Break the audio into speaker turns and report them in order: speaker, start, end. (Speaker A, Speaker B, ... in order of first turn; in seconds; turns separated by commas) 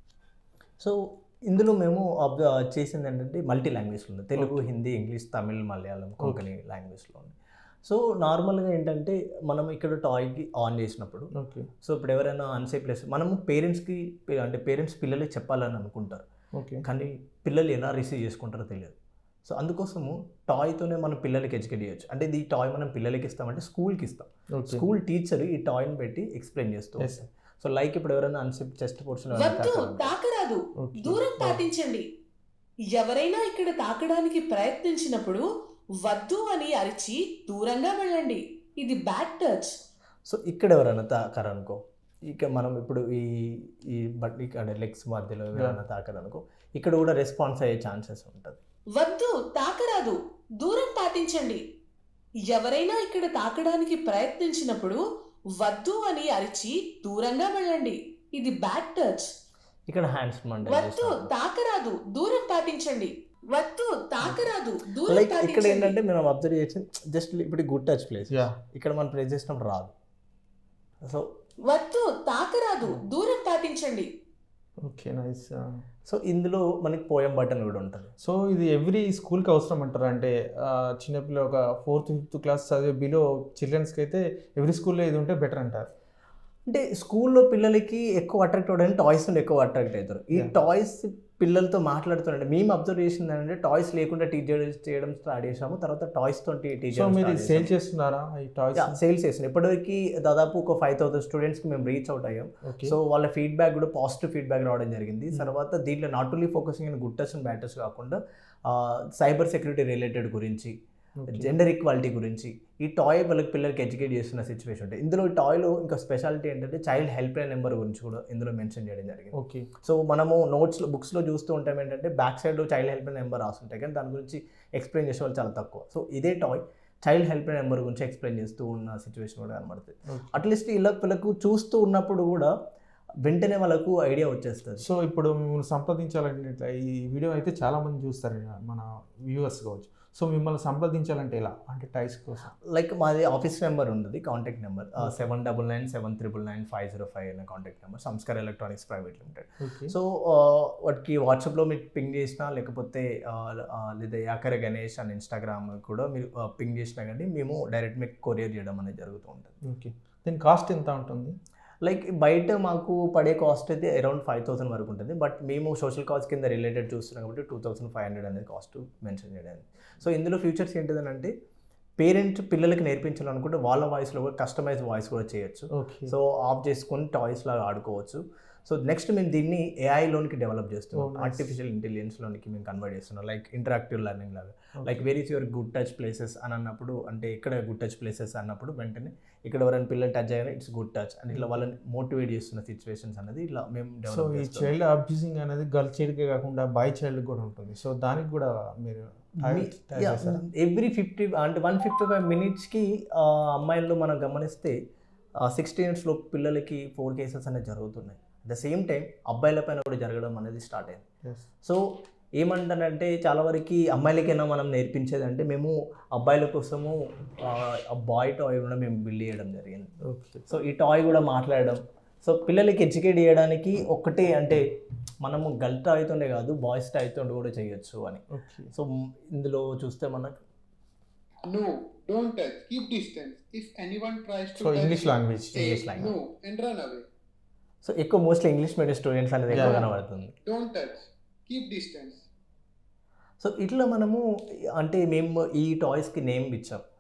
Speaker A: 0.8-11.3, Speaker B: 4.4-4.7, Speaker B: 6.2-6.5, Speaker B: 11.3-11.7, Speaker A: 11.8-16.2, Speaker B: 16.5-16.9, Speaker A: 16.8-30.1, Speaker B: 24.5-24.9, Speaker C: 29.4-32.1, Speaker B: 30.8-31.6, Speaker C: 32.9-35.5, Speaker C: 36.0-39.8, Speaker A: 40.3-48.6, Speaker C: 49.0-51.6, Speaker C: 52.5-55.0, Speaker C: 55.6-59.3, Speaker A: 59.9-61.3, Speaker C: 60.6-66.0, Speaker A: 65.1-69.9, Speaker B: 68.3-68.6, Speaker A: 71.0-71.3, Speaker C: 71.7-74.1, Speaker B: 74.8-75.8, Speaker A: 76.1-78.1, Speaker B: 78.2-85.9, Speaker A: 86.7-97.7, Speaker B: 96.9-99.0, Speaker A: 98.8-110.8, Speaker B: 102.6-103.0, Speaker B: 111.2-111.5, Speaker A: 111.3-132.5, Speaker B: 119.3-119.7, Speaker B: 130.1-130.4, Speaker A: 133.2-134.8, Speaker B: 134.8-142.5, Speaker A: 142.7-159.5, Speaker B: 149.6-149.9, Speaker B: 159.6-161.4, Speaker A: 161.8-171.3, Speaker A: 172.0-194.7, Speaker B: 175.7-176.1, Speaker B: 180.9-181.6, Speaker B: 184.8-185.1, Speaker B: 191.3-191.6, Speaker B: 194.1-200.4, Speaker A: 199.4-204.8, Speaker A: 205.4-211.0, Speaker A: 211.6-219.9, Speaker B: 220.0-220.5, Speaker A: 220.5-224.6, Speaker A: 225.2-230.4, Speaker B: 228.3-228.7, Speaker D: 231.5-237.0, Speaker B: 234.6-235.6, Speaker A: 235.6-236.2, Speaker A: 237.8-240.3, Speaker B: 239.5-239.9, Speaker D: 239.5-239.9, Speaker D: 240.4-242.2, Speaker A: 243.4-244.2, Speaker A: 244.8-246.8